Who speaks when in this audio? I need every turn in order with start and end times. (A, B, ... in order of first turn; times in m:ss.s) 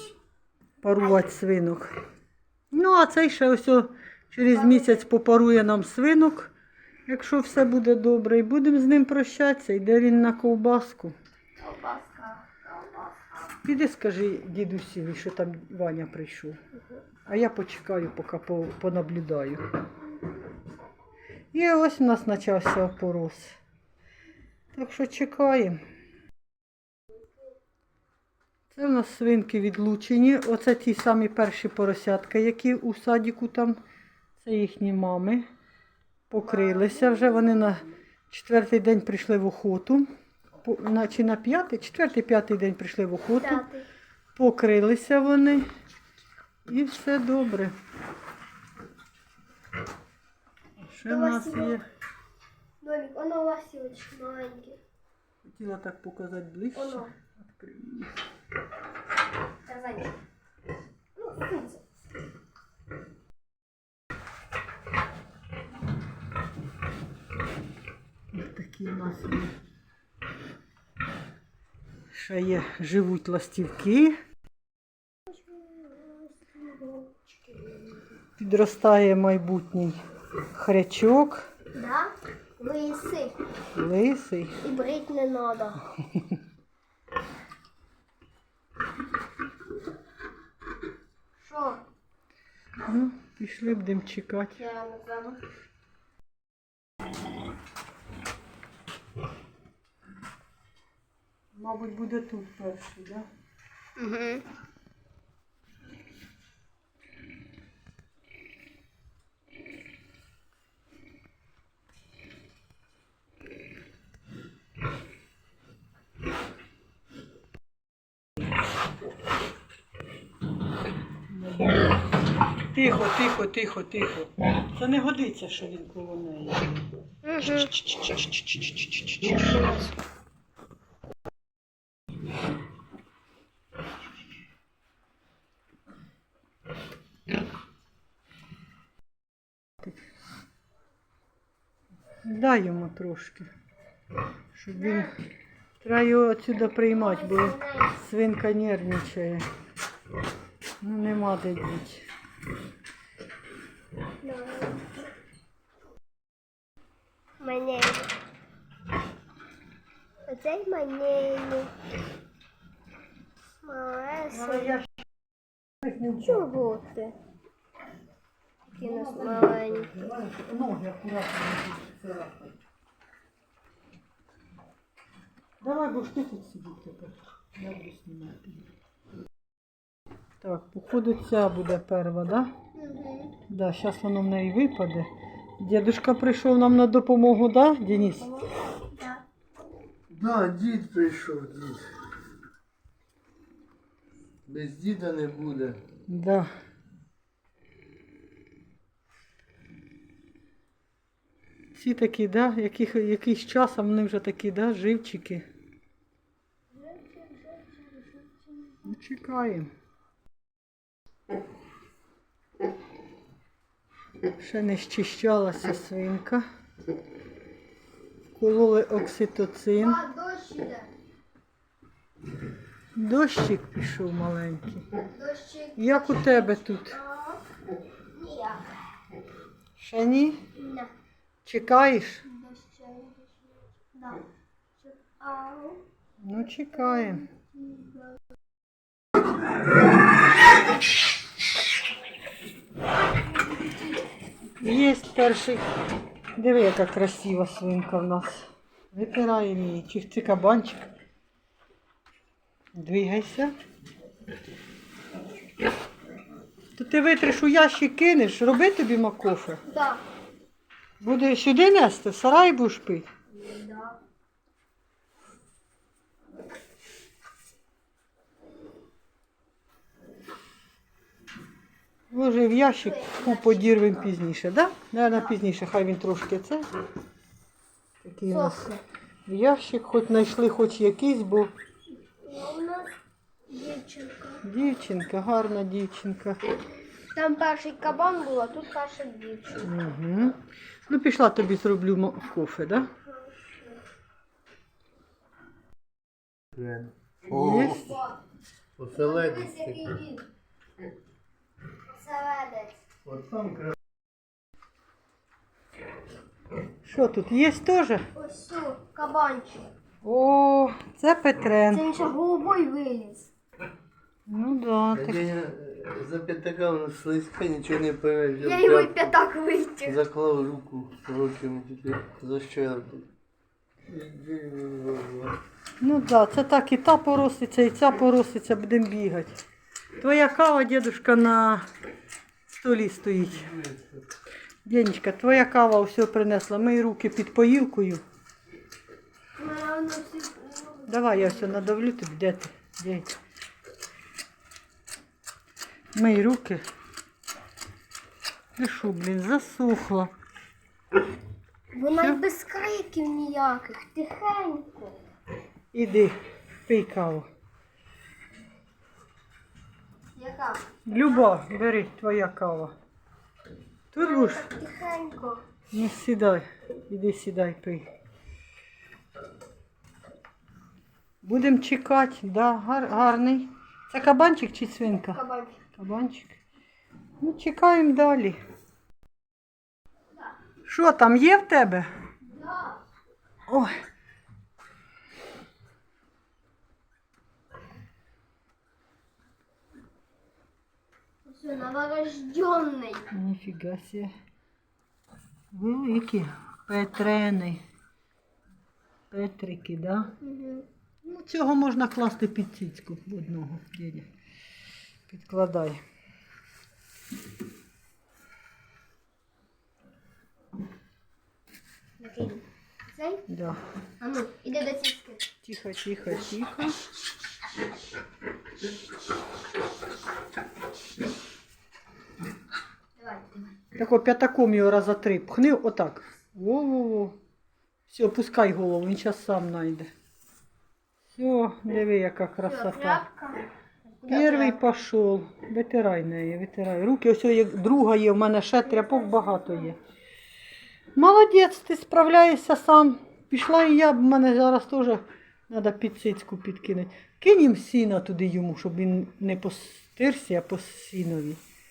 0:00.8-0:01.9 A
0:02.7-0:06.5 A
0:04.5-0:05.0 B
0:07.1-0:11.1 A
0:11.6-0:12.8 B
0:13.6-0:16.6 A
0:17.2-0:19.6 A
0:21.5-0:23.6 A
0:24.7-0:25.8 A
0:28.7-0:33.8 A
0:34.4-0:35.4 A
0:36.3-0:40.1 A
0:36.4-0:37.9 B
0:40.6-0:43.6 A
0:43.4-0:43.8 B
0:44.4-0:45.7 A
0:46.7-0:47.7 A
0:50.8-0:51.8 A
0:51.1-0:51.8 B
0:52.8-0:54.8 B
0:55.4-0:58.1 A
0:56.7-0:57.1 B
0:59.6-1:00.2 B
1:01.2-1:01.8 B
1:08.3-1:09.5 A
1:12.1-1:14.2 A
1:15.3-1:18.0 B
1:18.4-1:20.0 A
1:20.5-1:21.5 A
1:21.7-1:23.4 B
1:23.7-1:24.6 A
1:24.6-1:25.8 B
1:31.4-1:31.8 B
1:32.9-1:34.6 A
1:34.5-1:35.4 B
1:41.5-1:43.2 A
1:44.0-1:44.4 B
2:01.3-2:01.9 A
2:02.7-2:06.8 A
2:07.2-2:07.7 B
2:22.2-2:23.5 A
2:24.5-2:25.2 A
2:24.7-2:25.2 B
2:25.8-2:29.5 A
2:26.8-2:28.0 B
2:30.8-2:32.0 A
2:34.2-2:35.0 B
2:37.4-2:38.0 B
2:40.3-2:41.7 B
2:43.6-2:44.8 B
2:44.3-2:44.9 A
2:45.8-2:46.5 A
2:46.2-2:47.2 B
2:48.7-2:52.6 A
2:48.7-2:49.9 B
2:55.6-2:58.7 A
3:00.4-3:02.5 A
3:02.8-3:03.3 B
3:03.5-3:05.1 A
3:05.6-3:08.3 A
3:08.2-3:09.2 B
3:10.1-3:11.8 C
3:14.5-3:15.8 C
3:16.1-3:16.5 A
3:21.7-3:25.4 A
3:26.7-3:28.8 B
3:28.8-3:29.7 A
3:34.4-3:36.4 A
3:38.3-3:40.0 A
3:39.8-3:40.9 B
3:43.0-3:44.8 A
3:45.1-3:47.4 B
3:45.8-3:47.0 A
3:48.1-3:48.6 B
3:49.8-3:50.4 A
3:50.5-3:50.9 B
3:51.4-3:52.2 A
3:52.2-3:54.2 B
3:54.8-3:55.8 B
3:56.2-3:57.2 A
3:56.7-3:58.2 B
4:04.6-4:05.6 A
4:06.4-4:10.9 A
4:12.8-4:13.5 A
4:16.8-4:19.6 A
4:19.6-4:20.0 B
4:21.0-4:23.1 A
4:23.3-4:24.0 B
4:32.1-4:36.6 A
4:32.8-4:33.7 B
4:38.0-4:41.5 A
4:38.3-4:38.8 B
4:42.2-4:42.9 B
4:43.5-4:44.4 B
4:44.4-4:46.4 A
4:47.1-4:49.7 B
4:49.6-4:52.9 A
4:56.5-4:57.9 C
4:57.3-4:58.0 A
4:57.7-4:58.2 B
4:58.8-4:59.8 C
4:58.9-5:00.2 B
5:01.9-5:02.8 B
5:03.1-5:03.7 C
5:06.8-5:08.0 A
5:08.1-5:09.6 B
5:10.0-5:11.9 A
5:11.7-5:13.3 B
5:14.3-5:15.3 A
5:15.0-5:19.1 C
5:18.4-5:20.0 B
5:19.8-5:23.0 C
5:23.9-5:25.4 C
5:25.8-5:29.4 A
5:30.0-5:31.6 A
5:32.5-5:33.6 A
5:34.6-5:38.0 A
5:39.4-5:41.6 B
5:40.9-5:43.1 A
5:45.9-5:46.6 A
5:48.6-5:50.1 A
5:51.7-5:55.0 B
5:55.7-5:56.1 A
5:56.6-5:57.3 A
6:00.1-6:00.6 B
6:00.9-6:02.7 A
6:03.9-6:04.5 A
6:04.0-6:05.4 B
6:05.7-6:07.9 A
6:11.2-6:15.2 A
6:15.1-6:15.6 B
6:15.8-6:16.4 A
6:17.2-6:18.4 A
6:20.6-6:21.9 A
6:22.3-6:22.8 B
6:23.5-6:23.7 A
6:31.2-6:33.1 B
6:33.1-6:34.1 A
6:35.5-6:37.6 A
6:39.1-6:40.1 A
6:40.2-6:40.6 B
6:41.0-6:44.1 A
6:45.1-6:45.8 A
6:52.0-6:53.2 B
6:53.3-6:53.6 A
6:54.0-6:55.2 B
6:55.4-6:56.8 A
7:03.0-7:03.5 B
7:03.8-7:07.1 A
7:07.9-7:09.9 A
7:11.1-7:13.0 A
7:12.5-7:13.4 B
7:14.0-7:14.6 B
7:14.1-7:19.8 A
7:19.0-7:19.4 B
7:21.0-7:31.4 A